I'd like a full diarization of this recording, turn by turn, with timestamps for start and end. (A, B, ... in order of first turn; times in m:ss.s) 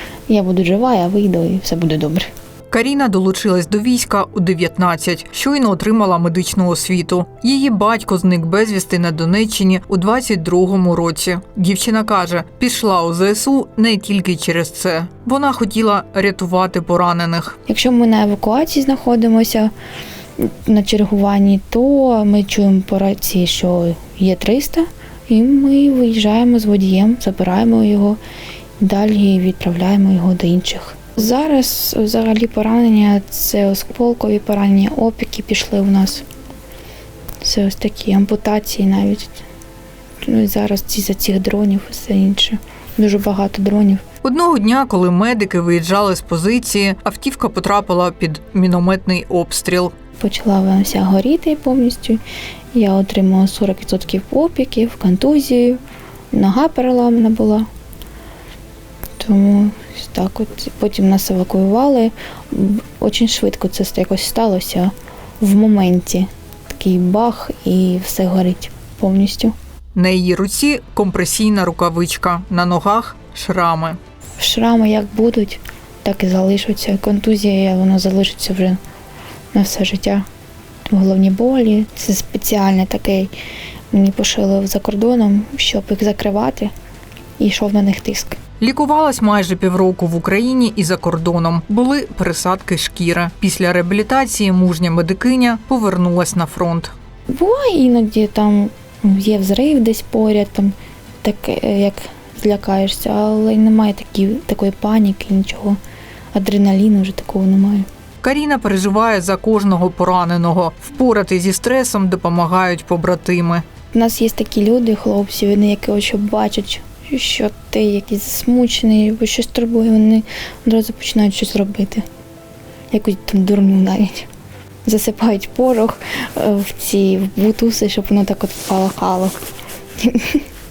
0:00.3-0:02.3 A
0:02.7-0:17.6 B
0:17.7-0:19.7 A
0:20.4-0:28.2 A
0:28.8-0:36.2 A
0:37.4-0:39.4 A
0:40.2-0:44.0 A
0:44.2-0:49.9 B
0:50.2-0:52.2 A
0:52.7-0:55.8 A
0:56.3-0:57.7 A
0:59.2-1:09.6 A
1:10.0-1:14.0 B
1:14.4-1:18.8 A
1:19.5-1:20.3 A
1:20.9-1:23.3 A
1:23.9-1:26.7 A
1:27.4-1:28.4 A
1:28.6-1:36.9 B
1:37.3-1:45.8 A
1:46.3-1:47.9 A
1:48.2-1:53.6 B
1:53.9-2:02.0 A
2:02.9-2:04.3 A
2:04.9-2:09.4 A
2:10.0-2:10.4 A